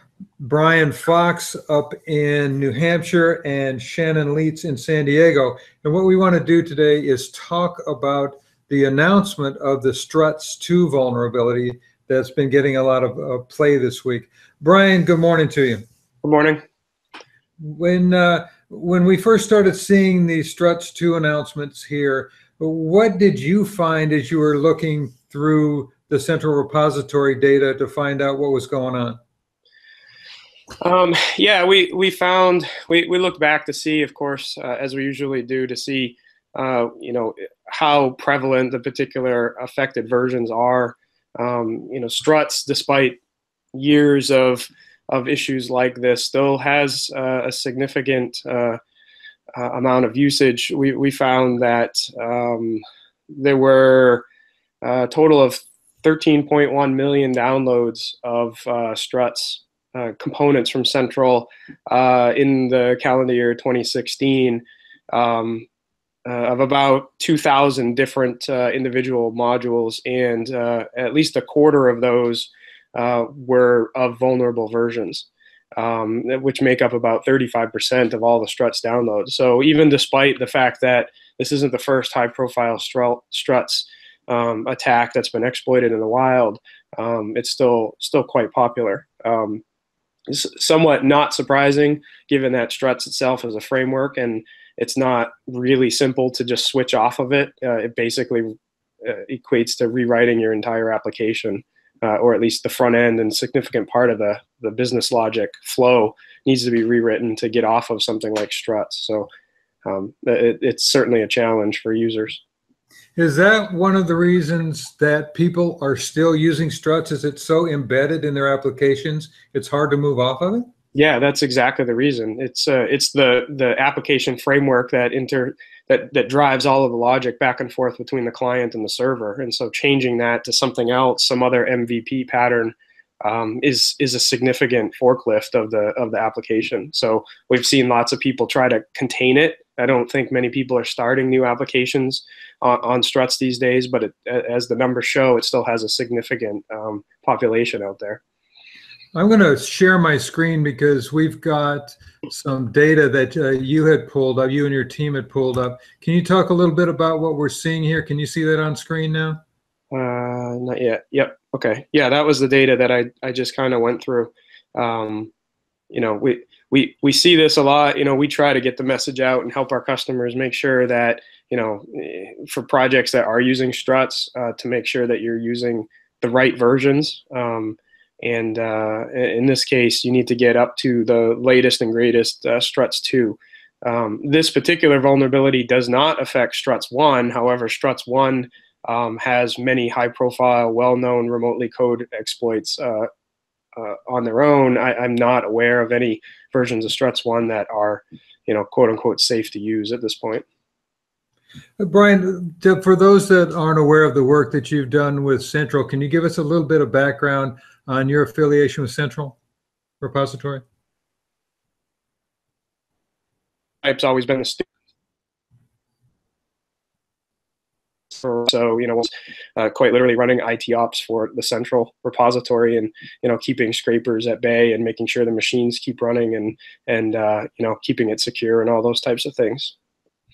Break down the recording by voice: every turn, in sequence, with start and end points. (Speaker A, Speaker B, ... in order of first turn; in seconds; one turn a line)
Speaker A: 0.4-15.8
Speaker B: 16.2-16.6
Speaker A: 17.6-29.2
Speaker B: 30.8-43.2
Speaker B: 43.7-48.8
Speaker B: 49.5-52.8
Speaker B: 53.3-54.2
Speaker B: 54.8-65.7
Speaker B: 66.2-89.6
Speaker B: 90.3-109.3
Speaker B: 109.8-112.4
Speaker A: 113.2-120.7
Speaker B: 120.9-148.2
Speaker A: 149.1-159.4
Speaker B: 159.9-165.3
Speaker B: 165.9-193.1
Speaker B: 193.8-200.4
Speaker A: 201.8-209.3
Speaker A: 210.0-210.6
Speaker B: 213.8-214.6
Speaker B: 218.1-229.7